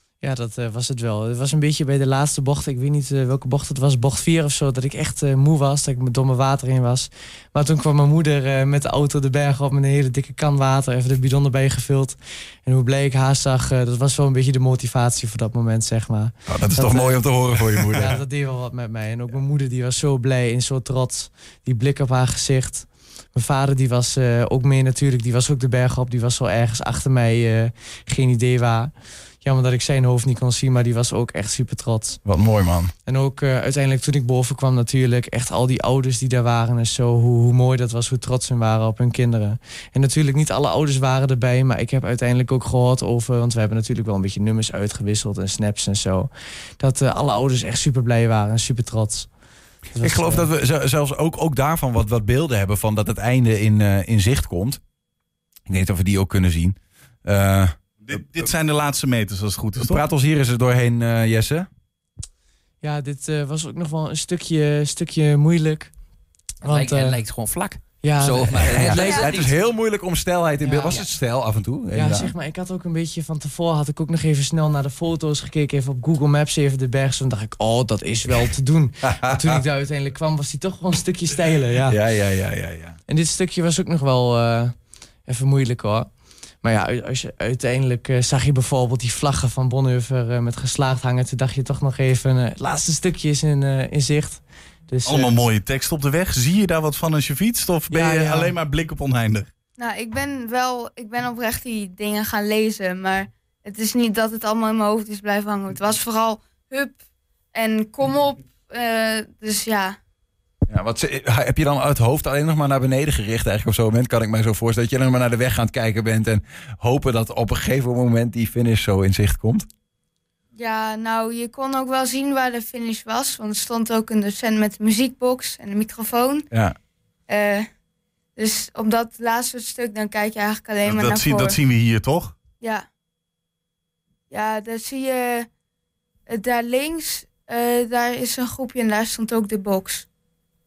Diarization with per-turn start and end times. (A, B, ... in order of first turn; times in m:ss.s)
0:00.2-0:17.3 A
0:16.5-0:18.1 B
0:17.9-0:32.2 A
0:32.2-0:32.9 B
0:33.0-0:49.3 A
0:49.9-0:50.5 A
0:50.0-0:54.8 B
0:55.7-0:57.8 B
0:58.0-1:00.0 C
0:59.8-1:01.7 B
1:02.8-1:05.9 A
1:06.6-1:07.2 A
1:06.6-1:09.5 D
1:08.0-1:09.3 A
1:08.7-1:12.3 B
1:10.6-1:11.0 A
1:11.9-1:22.0 A
1:19.0-1:19.6 B
1:21.9-1:23.0 B
1:23.1-1:35.3 A
1:35.0-1:39.5 C
1:37.9-1:38.6 A
1:39.8-1:47.0 E
1:47.5-1:50.0 E
1:50.7-1:59.6 B
2:00.5-2:06.5 E
2:07.3-2:07.7 E
2:08.4-2:11.6 E
2:10.8-2:12.3 C
2:12.6-2:12.8 E
2:14.3-2:15.5 E
2:16.3-2:20.0 E